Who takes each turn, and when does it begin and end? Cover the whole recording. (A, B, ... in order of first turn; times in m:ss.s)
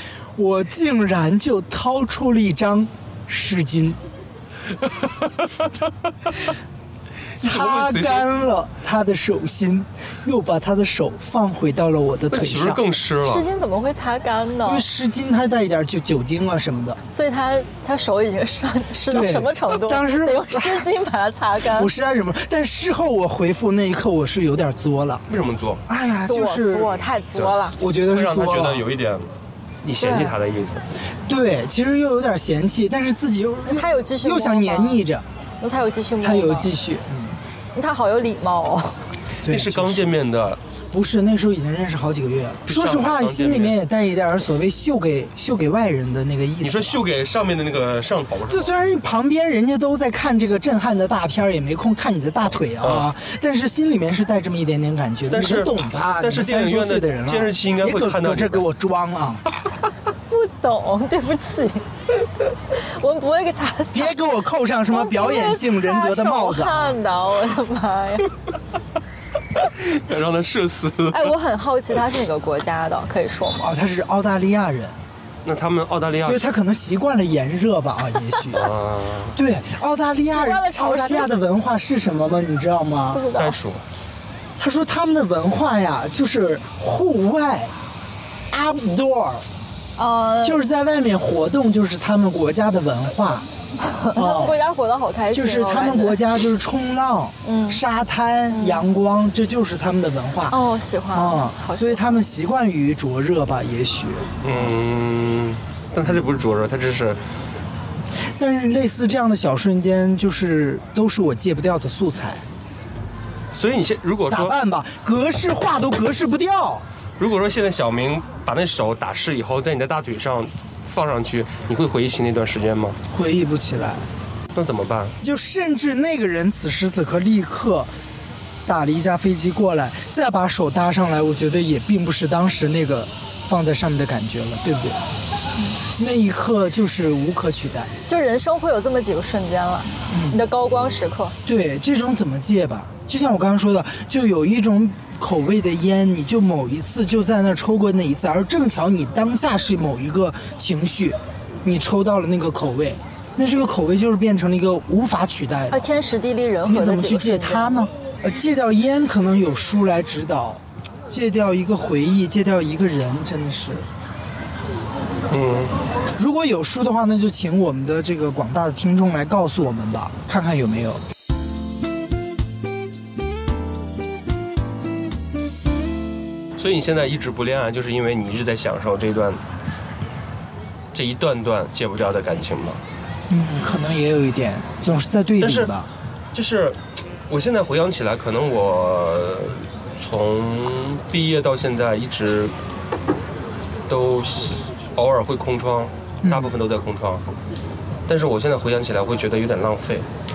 0:00.4-0:04.0 A
0:07.4-0:08.3 B
0:07.4-0:12.8 A
0:12.3-0:13.4 B
0:13.2-0:14.8 C
0:14.6-0:17.0 A
0:17.1-0:21.9 C
0:19.1-0:20.9 A
0:21.6-0:25.2 A
0:25.3-0:25.8 B
0:25.9-0:27.0 A
0:26.2-0:27.8 C
0:27.8-0:28.8 A
0:28.1-0:30.8 B
0:30.0-0:30.4 C
0:31.2-0:35.2 A
0:33.7-0:35.0 C
0:35.6-0:36.7 C
0:36.2-0:37.3 A
0:37.7-0:39.0 C
0:39.4-0:40.1 A
0:39.4-0:40.6 B
0:40.9-0:47.0 A
0:42.7-0:43.8 B
0:46.6-0:48.7 B
0:48.5-0:59.4 A
0:52.8-0:53.1 B
0:55.3-0:58.6 B
1:00.3-1:01.8 C
1:02.7-1:04.2 C
1:03.9-1:07.0 A
1:04.9-1:08.3 C
1:09.6-1:11.3 B
1:11.1-1:13.6 C
1:13.6-1:15.0 A
1:15.4-1:16.5 B
1:16.2-1:18.7 A
1:18.5-1:19.4 B
1:19.3-1:23.2 A
1:20.2-1:21.3 C
1:23.1-1:23.6 C
1:23.4-1:23.8 B
1:24.6-1:27.7 A
1:28.5-1:29.4 A
1:30.0-1:30.6 C
1:30.4-1:33.5 A
1:33.8-1:36.2 C
1:34.1-1:34.6 A
1:35.3-1:40.6 A
1:37.4-1:37.8 C
1:38.5-1:38.8 C
1:40.5-1:42.2 C
1:41.1-1:44.7 A
1:44.4-1:47.2 B
1:48.1-1:52.4 A
1:53.5-1:54.5 B
1:54.3-1:56.8 A
1:57.2-2:03.0 B
2:03.1-2:04.0 A
2:04.5-2:05.1 B
2:05.2-2:07.9 A
2:08.6-2:15.0 A
2:16.0-2:17.9 A
2:18.1-2:21.4 C
2:20.1-2:20.4 A
2:21.4-2:35.8 A
2:35.7-2:37.8 C
2:36.7-2:43.9 A
2:45.3-2:45.7 B
2:46.2-2:51.0 A
2:56.6-2:59.4 B
3:00.9-3:02.8 B
3:03.3-3:05.9 A
3:05.4-3:05.7 B
3:06.3-3:12.5 B
3:13.9-3:17.2 B
3:16.2-3:16.5 A
3:18.1-3:20.0 B